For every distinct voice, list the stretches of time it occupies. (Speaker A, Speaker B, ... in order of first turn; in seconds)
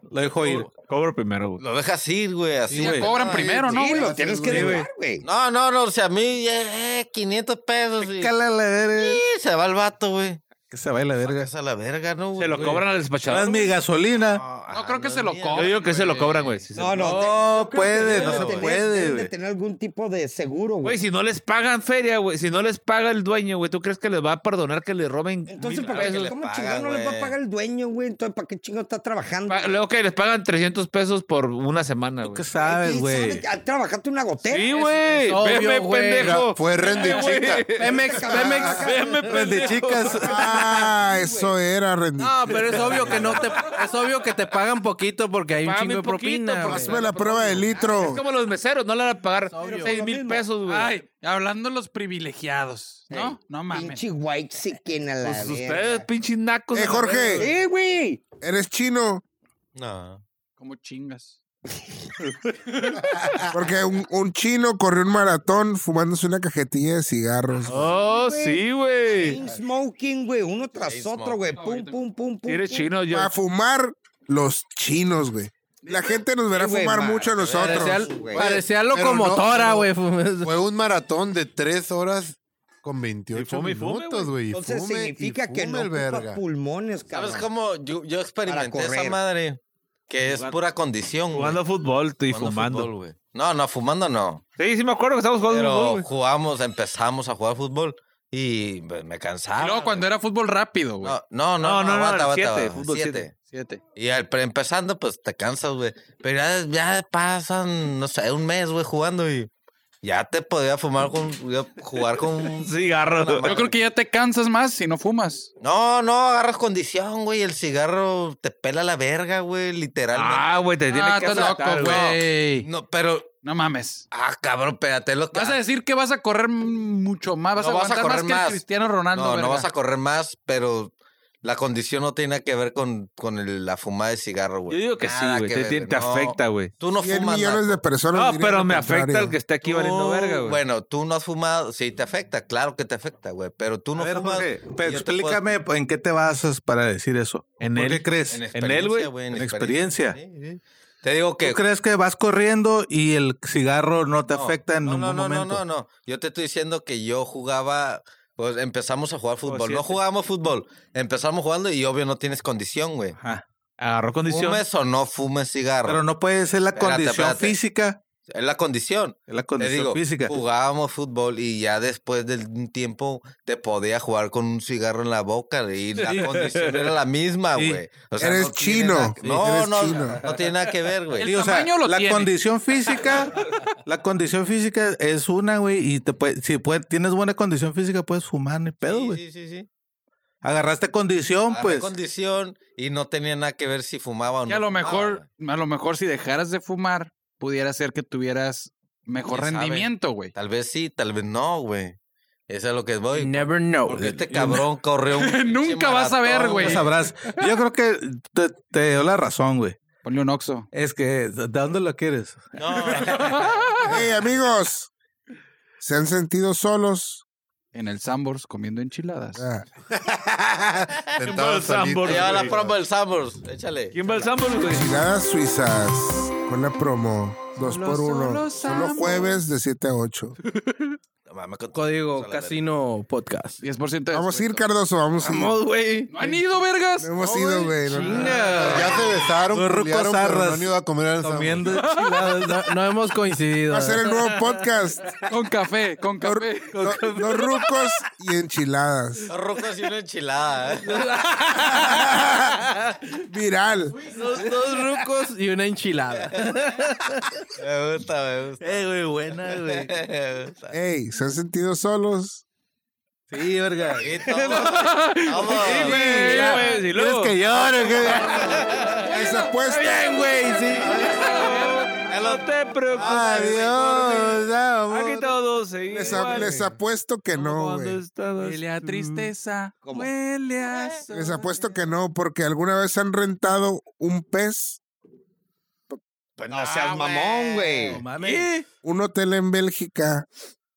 Speaker A: 0.1-0.7, 2.7-3.5, 4.5-4.8, 8.0-9.2, 10.7-11.5, 12.6-14.4, 17.1-19.3, 32.2-33.4, 39.3-40.2, 143.9-148.4, 149.3-150.2, 151.4-155.6, 163.2-163.4, 165.8-168.0, 169.3-170.4, 177.5-177.8, 181.2-189.2, 190.4-191.9, 204.3-204.6, 206.4-209.8, 210.7-212.9, 239.5-239.8, 259.0-259.3, 263.3-263.8, 266.9-268.6, 273.0-275.2
Speaker B: 0.4-1.6, 4.5-4.8, 12.4-13.7, 15.5-17.2, 20.8-26.3, 29.5-32.4, 34.4-38.2, 38.8-40.2, 45.6-50.9, 55.2-57.5, 67.7-69.4, 72.5-73.4, 83.3-84.3, 90.2-90.6, 91.3-92.9, 94.6-96.1, 101.6-103.3, 112.6-113.5, 120.1-122.1, 134.7-136.7, 138.1-140.6, 147.6-149.1, 159.4-160.0, 163.8-164.6, 176.0-176.8, 221.2-222.5, 223.9-224.9, 265.6-267.4, 271.2-274.4, 274.9-276.6, 277.3-278.9
Speaker C: 1.6-10.4, 11.2-12.8, 14.2-18.8, 25.6-27.3, 59.7-60.2, 70.8-71.6, 77.3-77.9, 87.1-91.6, 92.3-94.4, 95.4-100.1, 101.0-103.3, 104.0-109.5, 110.0-113.8, 115.6-120.5, 121.0-123.3, 124.1-125.6, 127.5-137.8, 139.6-145.5, 148.3-151.6, 154.3-163.2, 164.3-166.0, 166.7-167.6, 168.3-181.5, 188.8-189.7, 191.5-195.2, 199.3-201.9, 202.5-206.9, 212.6-213.6, 222.0-224.2, 231.3-232.6, 249.3-251.1, 257.6-258.8, 259.4-260.7, 263.9-266.1, 267.6-269.1, 270.8-271.1, 272.0-274.2, 286.4-287.8
Speaker D: 2.8-4.3, 14.7-16.5, 36.9-37.2, 50.6-54.0, 60.6-61.4, 71.6-71.9, 99.5-101.2, 103.5-103.8, 113.4-115.5, 120.9-122.7, 123.4-124.0, 125.3-129.7, 181.2-182.3, 194.5-200.3, 205.1-206.8, 210.0-210.7, 212.9-214.0, 217.7-219.4, 227.6-229.4, 233.6-234.6, 236.1-237.2, 237.8-238.9, 241.7-242.5, 245.3-246.8, 264.6-266.8, 269.1-272.1, 278.4-281.7
Speaker E: 3.3-4.8, 36.2-38.8, 40.1-40.6, 78.3-79.9, 80.4-86.4, 219.9-222.8, 238.6-241.7
Speaker F: 3.7-5.2, 16.7-21.0, 25.5-29.8, 32.6-34.9, 37.8-41.5, 42.8-43.4, 47.7-48.2, 49.6-50.5, 53.1-56.0, 57.4-58.2, 67.7-72.9, 76.5-78.5, 84.5-87.5, 88.5-89.2, 279.8-280.1, 286.5-288.0
Speaker G: 35.1-36.4, 37.7-39.5, 42.2-47.0, 49.5-50.0, 77.6-80.6, 203.1-204.6, 231.7-233.6, 235.2-236.4, 237.2-244.6, 246.7-247.6, 250.8-253.0, 254.0-257.2, 259.4-259.9, 263.3-264.0, 265.9-266.4, 267.5-268.5, 270.2-271.0, 287.8-288.6
Speaker H: 40.2-43.4, 46.6-48.2, 56.7-57.5, 58.4-59.2, 63.4-67.9, 73.1-78.0, 137.0-139.4, 178.2-180.2, 213.8-214.9, 215.8-217.2, 219.3-219.7, 224.6-230.3, 234.1-235.6, 237.0-238.8, 243.7-245.2, 246.2-249.3, 251.7-252.6, 253.3-254.1, 260.7-262.4, 265.7-266.5, 269.0-270.4, 275.9-278.0, 281.1-284.8, 288.8-290.2